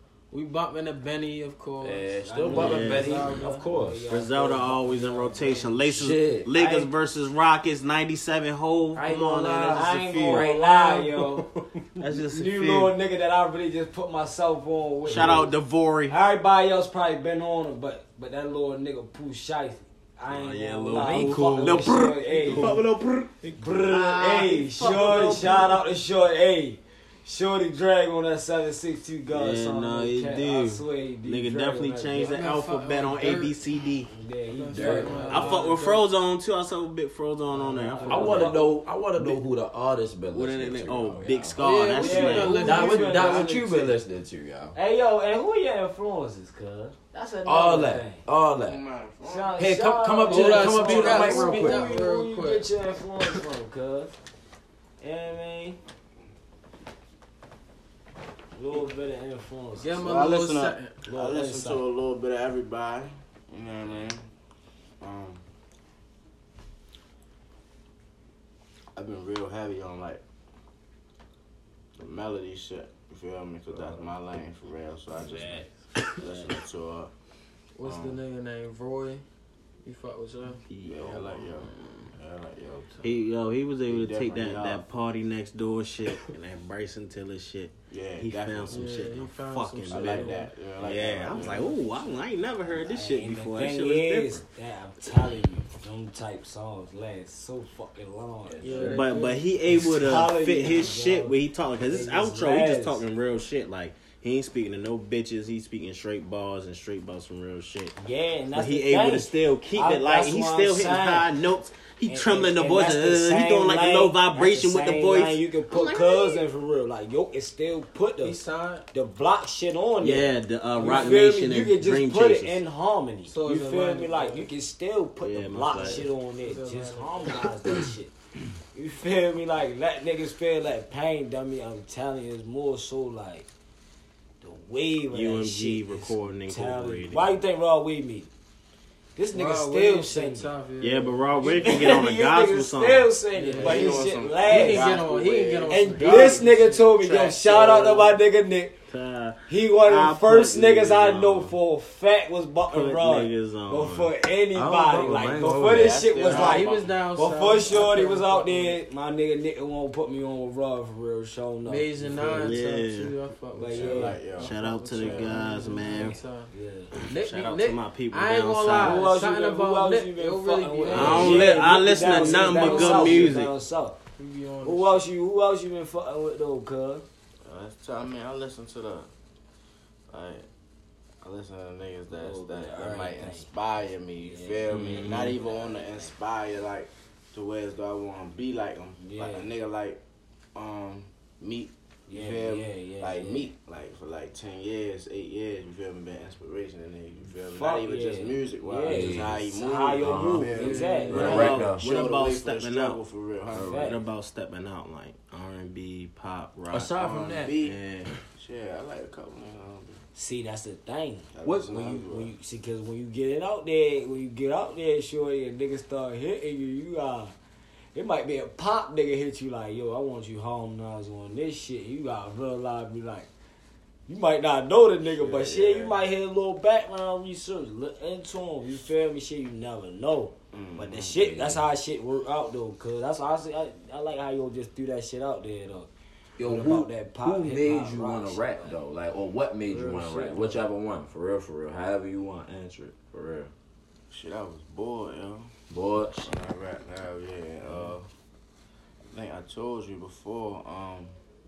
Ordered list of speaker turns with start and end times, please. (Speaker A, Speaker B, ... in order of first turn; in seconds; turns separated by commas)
Speaker A: 0.3-2.0, Speaker B: 1.8-4.1, Speaker C: 2.2-6.8, Speaker D: 2.5-3.1, Speaker A: 2.8-3.6, Speaker D: 4.1-10.5, Speaker B: 5.9-6.8, Speaker B: 8.9-11.1, Speaker C: 9.7-11.5, Speaker D: 11.3-12.9, Speaker C: 12.3-15.5, Speaker D: 15.0-16.2, Speaker B: 15.1-15.4, Speaker C: 16.1-22.8, Speaker D: 20.3-25.7, Speaker B: 20.9-22.8, Speaker B: 23.4-25.1, Speaker C: 23.6-32.4, Speaker D: 29.3-34.1, Speaker A: 32.1-33.5, Speaker C: 34.1-35.8, Speaker A: 34.5-36.0, Speaker B: 34.7-35.3, Speaker D: 35.1-38.5, Speaker C: 37.5-39.4, Speaker B: 38.0-41.6, Speaker D: 40.3-42.8, Speaker A: 41.6-43.5, Speaker C: 41.9-44.0, Speaker B: 42.6-44.7, Speaker C: 44.7-48.2, Speaker B: 47.4-48.8, Speaker E: 48.6-49.8, Speaker C: 49.2-54.1, Speaker B: 49.6-52.1, Speaker A: 50.2-52.7, Speaker C: 55.0-55.8, Speaker C: 58.5-60.0, Speaker A: 59.8-60.9, Speaker E: 59.9-64.2, Speaker C: 61.1-61.8, Speaker E: 65.0-65.4, Speaker E: 68.9-70.2, Speaker E: 72.0-77.1, Speaker D: 73.7-74.0, Speaker D: 75.3-75.6, Speaker A: 77.8-79.2, Speaker E: 77.8-78.2, Speaker A: 79.8-80.6, Speaker D: 80.7-81.6, Speaker E: 80.8-83.2, Speaker D: 83.0-94.4, Speaker E: 83.8-84.8, Speaker E: 87.9-89.1, Speaker A: 88.7-90.5, Speaker E: 89.9-91.8, Speaker C: 91.4-91.7, Speaker C: 92.7-103.0, Speaker B: 98.6-98.9, Speaker A: 98.6-99.4, Speaker D: 98.7-107.9, Speaker C: 108.0-111.3, Speaker D: 108.5-115.4, Speaker C: 112.1-118.4, Speaker A: 118.2-118.8, Speaker C: 118.9-128.1, Speaker D: 120.0-122.6, Speaker A: 120.8-121.2, Speaker A: 123.3-124.5, Speaker D: 125.2-126.1, Speaker A: 125.8-127.5, Speaker C: 128.7-133.5, Speaker C: 134.4-138.3, Speaker D: 135.1-137.3, Speaker C: 139.2-140.5, Speaker A: 139.3-141.8, Speaker D: 140.8-143.1, Speaker C: 141.4-145.0, Speaker A: 143.3-146.9, Speaker E: 143.5-148.2, Speaker C: 145.7-148.7, Speaker D: 148.9-151.6, Speaker C: 149.5-162.6, Speaker D: 152.7-154.1, Speaker B: 154.5-156.3, Speaker E: 155.6-156.9, Speaker A: 156.2-158.8, Speaker A: 161.7-166.5, Speaker D: 162.2-163.1, Speaker C: 163.6-164.2, Speaker E: 163.7-165.6, Speaker D: 164.4-166.2, Speaker C: 165.9-166.9, Speaker D: 166.9-169.0, Speaker A: 167.0-173.4, Speaker C: 168.7-174.0, Speaker D: 170.9-173.5, Speaker E: 171.0-171.3, Speaker A: 174.2-175.0, Speaker C: 174.6-177.0, Speaker E: 177.4-179.1, Speaker E: 180.1-180.4, Speaker E: 181.2-190.0, Speaker C: 182.1-183.5, Speaker C: 184.2-186.1, Speaker D: 184.7-185.3, Speaker C: 189.0-189.5, Speaker E: 190.5-203.8, Speaker C: 192.1-193.5, Speaker C: 197.5-201.7, Speaker B: 198.8-199.3, Speaker B: 200.0-201.8, Speaker A: 200.7-201.1, Speaker D: 201.1-203.0, Speaker C: 203.5-204.0, Speaker D: 203.5-206.9, Speaker B: 206.7-207.6, Speaker E: 206.9-210.0, Speaker D: 207.6-208.1, Speaker C: 210.1-217.3, Speaker E: 211.3-212.3, Speaker B: 211.4-211.9, Speaker C: 217.9-223.3, Speaker C: 224.1-238.8, Speaker E: 225.0-226.0, Speaker E: 230.5-231.1, Speaker B: 231.0-231.6, Speaker B: 236.4-243.5, Speaker C: 239.7-240.6, Speaker E: 244.1-248.1, Speaker B: 245.7-246.3, Speaker B: 247.6-247.9, Speaker E: 249.1-251.1